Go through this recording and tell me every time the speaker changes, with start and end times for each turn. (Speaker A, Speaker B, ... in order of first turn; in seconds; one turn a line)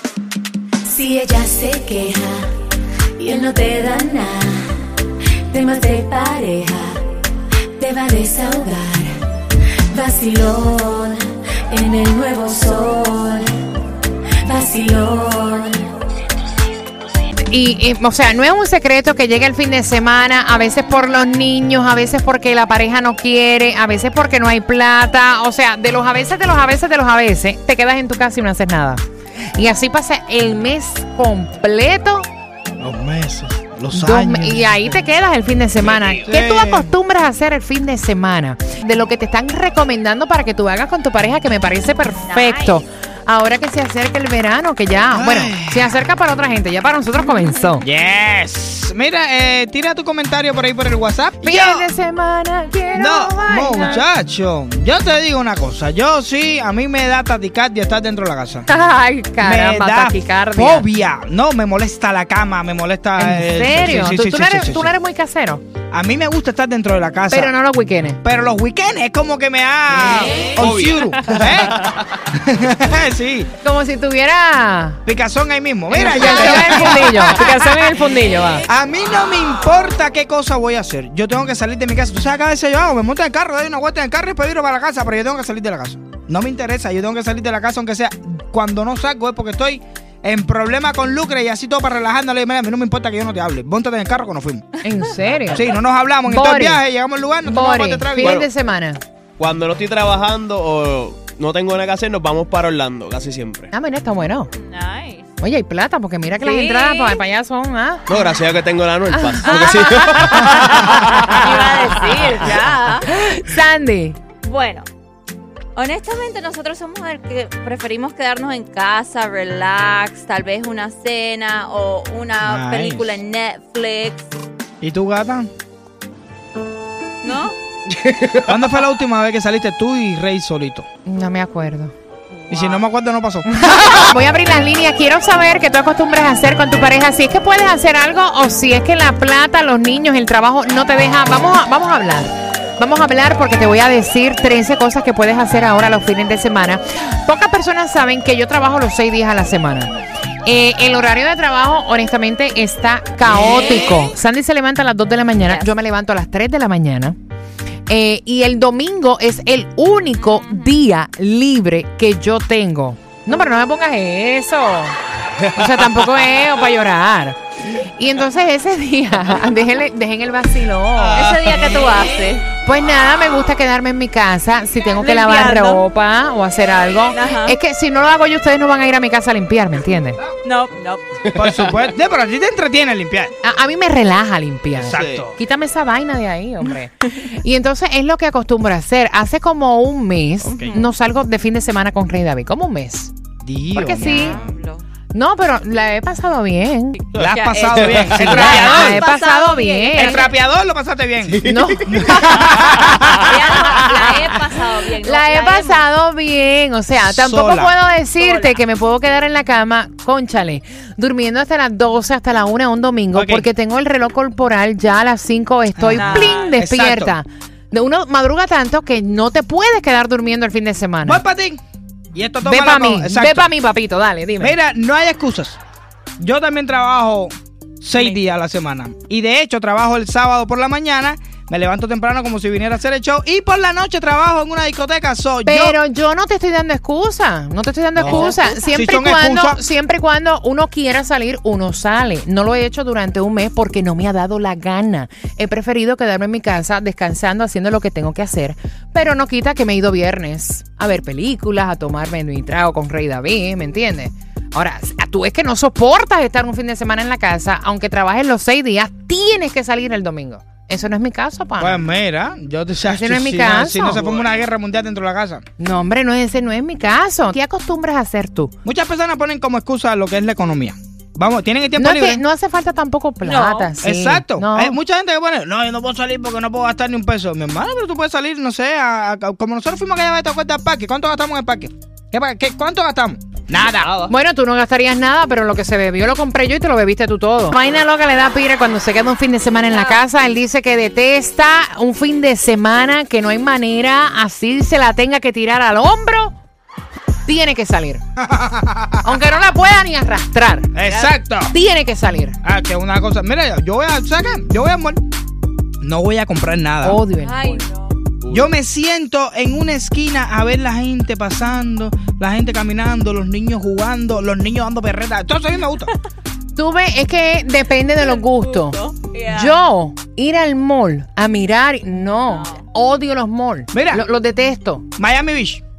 Speaker A: 0.9-2.5
Speaker A: 3.2-7.0
Speaker A: 7.8-9.2
Speaker A: 9.9-13.6
Speaker A: 14.4-15.9
Speaker B: 17.4-29.0
Speaker B: 29.5-32.3
Speaker C: 32.8-35.0
Speaker B: 33.9-47.9
Speaker C: 36.2-36.9
Speaker D: 42.2-42.8
Speaker C: 45.1-45.9
Speaker C: 47.8-51.9
Speaker B: 51.4-54.0
Speaker C: 52.9-58.7
Speaker B: 58.7-60.9
Speaker C: 59.4-64.9
Speaker B: 63.2-65.6
Speaker C: 65.9-67.5
Speaker B: 67.3-68.2
Speaker C: 68.2-73.5
Speaker E: 70.5-72.2
Speaker B: 73.6-75.0
Speaker C: 75.0-77.8
Speaker B: 75.9-78.7
Speaker C: 78.7-94.8
Speaker B: 94.8-95.7
Speaker C: 95.5-98.4
Speaker B: 96.2-96.8
Speaker B: 97.4-99.0
Speaker E: 98.2-98.5
Speaker E: 99.4-103.7
Speaker B: 103.7-104.5
Speaker D: 104.5-105.3
Speaker B: 105.4-108.0
Speaker D: 106.4-107.2
Speaker E: 108.1-112.5
Speaker B: 109.1-110.7
Speaker D: 109.4-109.8
Speaker D: 111.3-113.1
Speaker B: 113.0-114.2
Speaker D: 114.4-114.8
Speaker D: 115.8-124.3
Speaker C: 122.4-123.2
Speaker C: 124.8-125.5
Speaker D: 127.2-127.6
Speaker E: 128.0-128.5
Speaker C: 128.4-130.9
Speaker B: 131.0-131.9
Speaker C: 132.5-133.5
Speaker D: 132.5-132.8
Speaker B: 133.4-149.9
Speaker B: 150.4-157.2
Speaker B: 157.9-165.0
Speaker D: 160.2-160.8
Speaker B: 165.5-171.3
Speaker E: 171.0-171.9
Speaker D: 171.2-172.5
Speaker B: 172.6-180.2
Speaker D: 175.0-175.8
Speaker D: 177.1-177.6
Speaker D: 180.4-181.1
Speaker C: 181.3-183.3
Speaker E: 181.3-181.7
Speaker B: 183.4-193.1
Speaker E: 184.8-185.3
Speaker C: 184.8-185.3
Speaker C: 190.4-190.8
Speaker D: 190.6-190.9
Speaker C: 193.4-194.5
Speaker B: 193.7-194.4
Speaker D: 194.0-194.8
Speaker B: 195.1-197.0
Speaker C: 197.1-199.0
Speaker D: 197.2-200.3
Speaker E: 197.6-198.8
Speaker B: 198.2-200.2
Speaker C: 199.9-203.8
Speaker E: 201.3-202.1
Speaker B: 201.4-201.9
Speaker D: 203.1-205.9
Speaker B: 205.0-221.2
Speaker C: 207.0-207.7
Speaker D: 208.2-208.5
Speaker C: 213.1-213.5
Speaker C: 215.8-217.2
Speaker D: 215.9-216.6
Speaker C: 221.0-221.6
Speaker C: 222.1-223.5
Speaker B: 222.4-224.5
Speaker C: 224.4-225.6
Speaker C: 226.2-235.8
Speaker D: 227.9-228.2
Speaker B: 235.4-261.8
Speaker C: 238.0-239.6
Speaker D: 238.0-238.3
Speaker C: 261.6-265.4
Speaker B: 262.8-264.1
Speaker B: 265.6-268.5
Speaker C: 268.6-272.2
Speaker B: 271.8-274.8
Speaker D: 273.2-273.7
Speaker C: 273.8-284.1
Speaker B: 284.0-296.3
Speaker D: 289.7-290.0
Speaker B: 297.2-298.0
Speaker C: 298.2-299.0
Speaker B: 299.0-300.7
Speaker C: 300.7-301.5
Speaker D: 300.8-301.2
Speaker B: 301.5-302.4
Speaker C: 302.4-305.0
Speaker C: 305.8-307.0
Speaker B: 306.8-307.6
Speaker D: 307.2-308.0
Speaker E: 308.2-308.5
Speaker C: 308.3-315.9
Speaker B: 316.5-318.8
Speaker D: 318.0-319.6
Speaker B: 319.3-324.8
Speaker D: 322.3-322.6
Speaker C: 323.7-324.0
Speaker C: 325.0-325.6